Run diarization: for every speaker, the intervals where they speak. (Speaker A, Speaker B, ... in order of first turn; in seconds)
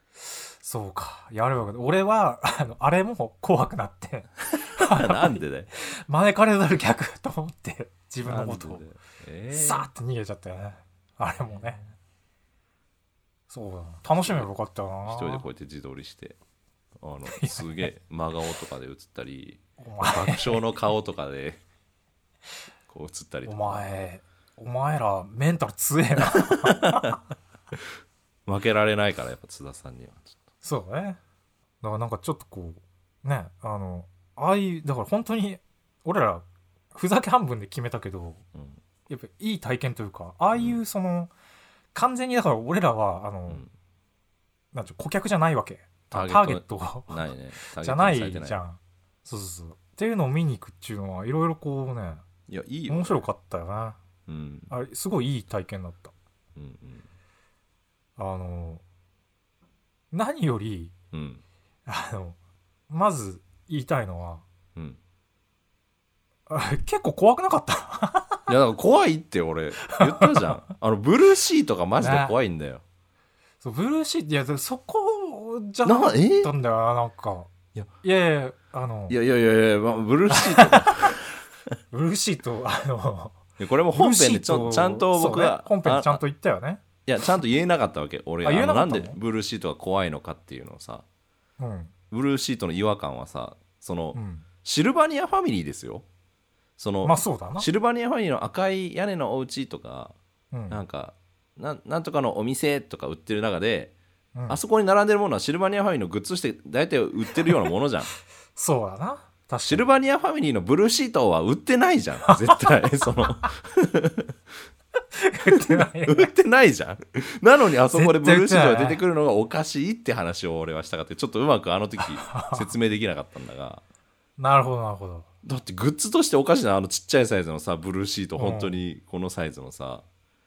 Speaker A: 0.5-8.8, 9.5-11.8, 13.5-15.4, 17.3-17.9, 19.8-20.6, 23.4-27.1, 30.6-31.2, 31.8-38.4, 39.1-41.3, 41.9-43.6, 44.7-47.2, 47.7-52.2, 52.9-54.0, 54.7-56.1, 58.2-58.8, 60.1-60.9, 61.9-62.4, 62.9-64.4, 66.5-68.5, 70.0-70.3, 72.0-72.3, 73.6-77.5, 78.0-79.2, 80.3-81.2, 81.9-83.4, 83.9-86.8, 88.4-89.2, 91.6-91.9, 94.1-94.5, 97.0-97.7, 100.5-100.8, 104.3-104.6, 108.5-109.8, 112.3-113.1, 115.1-116.3, 117.9-119.0, 122.0-122.7, 124.4-125.3, 128.4-128.8
Speaker B: 4.5-5.7, 8.2-9.8, 15.1-16.4, 17.0-21.6, 22.9-23.8, 26.4-27.2, 28.4-30.4, 38.5-38.8, 40.5-40.8, 46.1-48.6, 52.5-53.2, 54.3-54.7, 56.5-57.1, 61.1-61.4, 68.5-72.8, 75.8-76.5, 79.1-81.4, 83.6-86.2, 87.0-91.0, 92.1-96.1, 96.8-100.2, 100.7-103.9, 104.5-108.1, 109.7-114.3, 115.5-123.8, 125.4-130.0